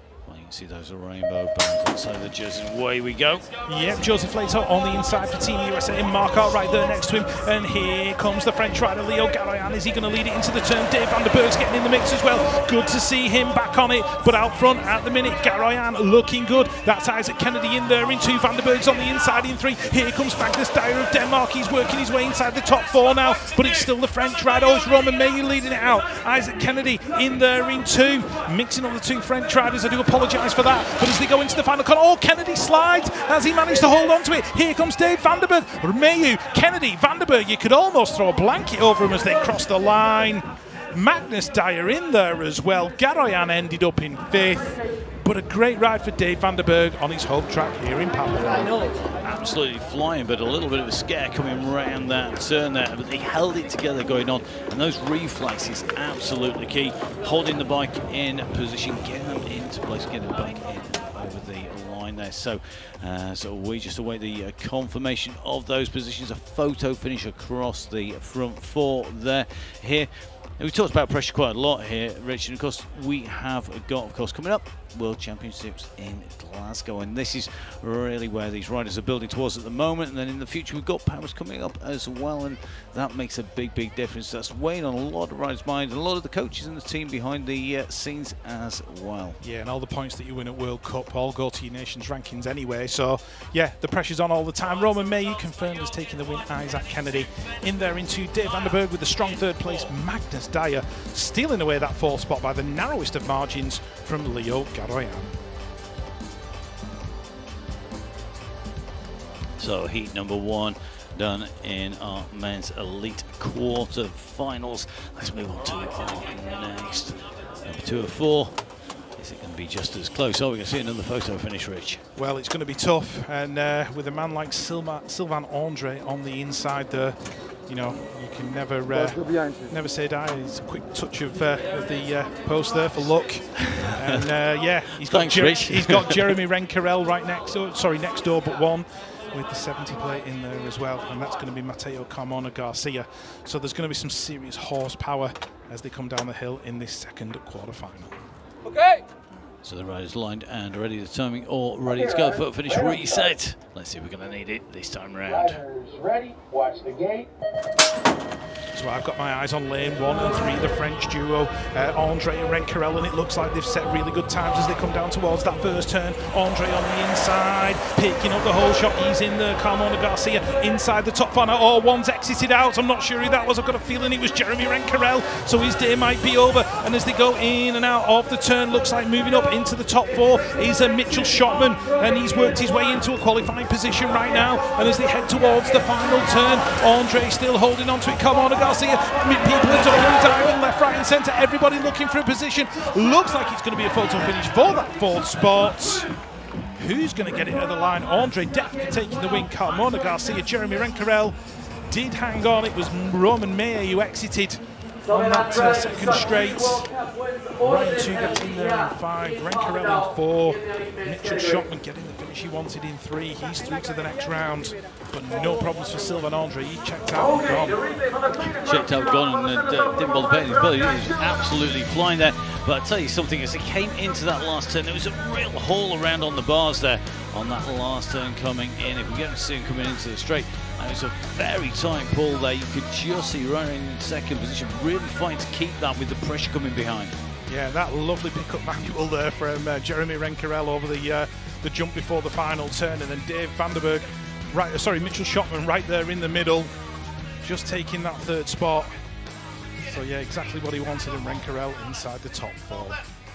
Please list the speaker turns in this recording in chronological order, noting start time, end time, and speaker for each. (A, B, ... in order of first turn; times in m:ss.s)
0:00.3-0:03.5 A
0:03.6-0:48.9 B
0:49.2-1:29.4 A
1:29.4-1:45.4 B
1:49.6-2:02.0 A
2:02.2-2:28.1 B
2:13.6-2:14.2 A
2:15.0-2:16.3 A
2:29.6-2:35.6 A
2:31.8-2:33.4 C
2:35.3-2:37.3 C
2:38.7-3:16.1 B
3:16.8-3:27.0 B
3:27.5-3:37.8 B
3:38.4-3:57.2 A
3:57.5-4:06.7 B
4:07.4-4:09.0 B
4:09.8-4:13.0 B